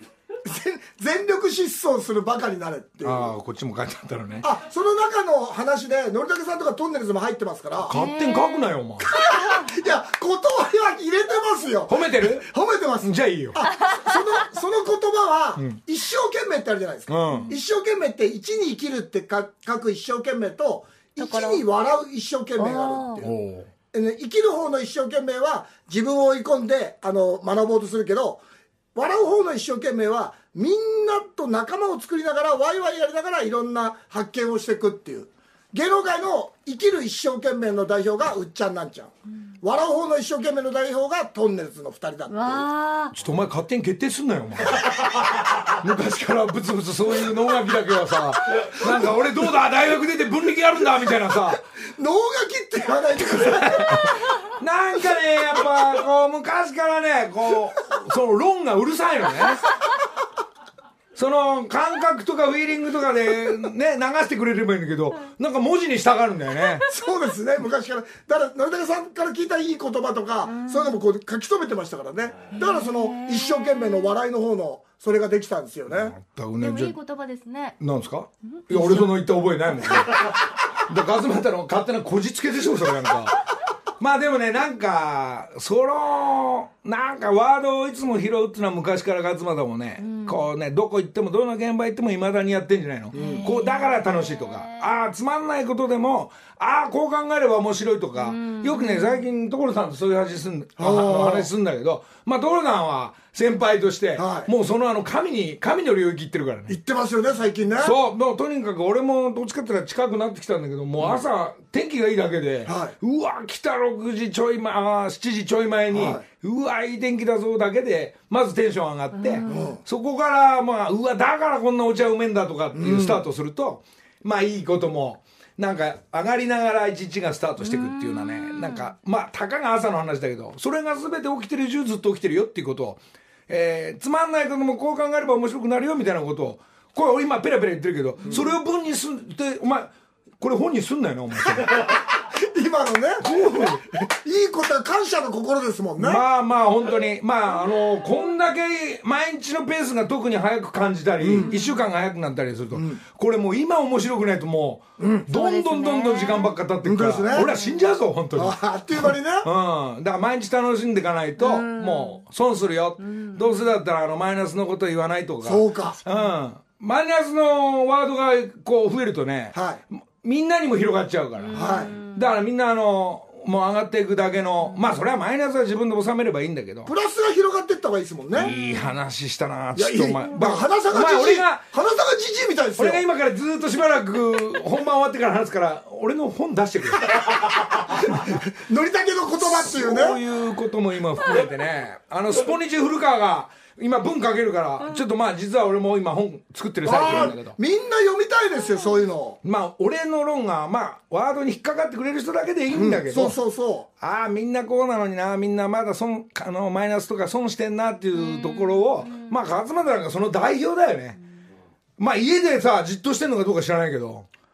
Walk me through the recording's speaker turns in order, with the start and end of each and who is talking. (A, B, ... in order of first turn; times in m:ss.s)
0:00.4-0:03.3 A
0:03.0-0:04.5 B
0:04.4-0:08.0 A
0:07.9-0:08.7 C
0:07.9-0:09.1 B
0:09.0-0:23.3 A
0:09.3-0:09.7 C
0:11.9-0:12.5 B
0:13.0-0:13.6 B
0:13.8-0:14.4 C
0:17.1-0:17.6 B
0:17.3-0:17.6 C
0:21.2-0:21.6 C
0:22.6-0:23.2 C
0:23.2-0:23.7 B
0:23.9-0:28.4 A
0:29.0-0:42.7 A
0:42.3-0:43.1 C
0:43.1-0:51.6 B
0:51.8-0:54.1 A
0:53.2-0:59.7 B
1:01.1-1:06.9 B
1:06.9-1:16.1 A
1:10.4-1:11.0 C
1:12.6-1:14.1 C
1:15.9-1:17.0 B
1:16.6-1:17.8 C
1:17.8-1:23.4 B
1:18.6-1:19.0 C
1:24.0-1:46.8 B
1:30.0-1:30.4 C
1:33.1-1:33.5 A
1:33.2-1:34.8 C
1:38.2-1:39.2 C
1:40.8-1:41.5 A
1:44.2-1:44.5 A
1:46.7-1:48.0 A
1:47.8-2:21.9 B
1:52.7-1:53.0 A
1:55.9-1:56.2 A
1:59.2-1:59.7 C
1:59.4-1:59.8 A
2:02.7-2:03.2 A
2:07.6-2:08.9 C
2:22.1-2:26.2 A
2:23.2-2:23.8 B
2:26.0-2:56.9 B
2:31.2-2:31.5 A
2:31.4-2:31.8 C
2:32.7-2:33.0 A
2:35.0-2:35.3 A
2:35.3-2:36.6 C
2:36.8-2:37.5 A
2:37.4-2:37.8 C
2:38.4-2:39.5 A
2:41.4-2:42.2 C
2:43.1-2:43.5 C
2:45.4-2:46.0 A
2:49.5-2:49.8 A
2:51.4-2:52.3 C
2:51.5-2:52.0 A
2:56.9-2:58.5 A
2:58.4-3:01.6 B
2:58.4-2:58.9 C
2:59.8-3:03.0 A
3:02.8-3:07.4 B
3:07.4-3:10.2 A
3:08.0-3:08.3 B
3:09.4-3:17.6 B
3:16.8-3:19.4 A
3:19.4-3:23.4 B
3:22.7-3:23.9 A
3:24.0-3:31.2 B
3:28.1-3:29.3 C
3:32.0-3:34.3 B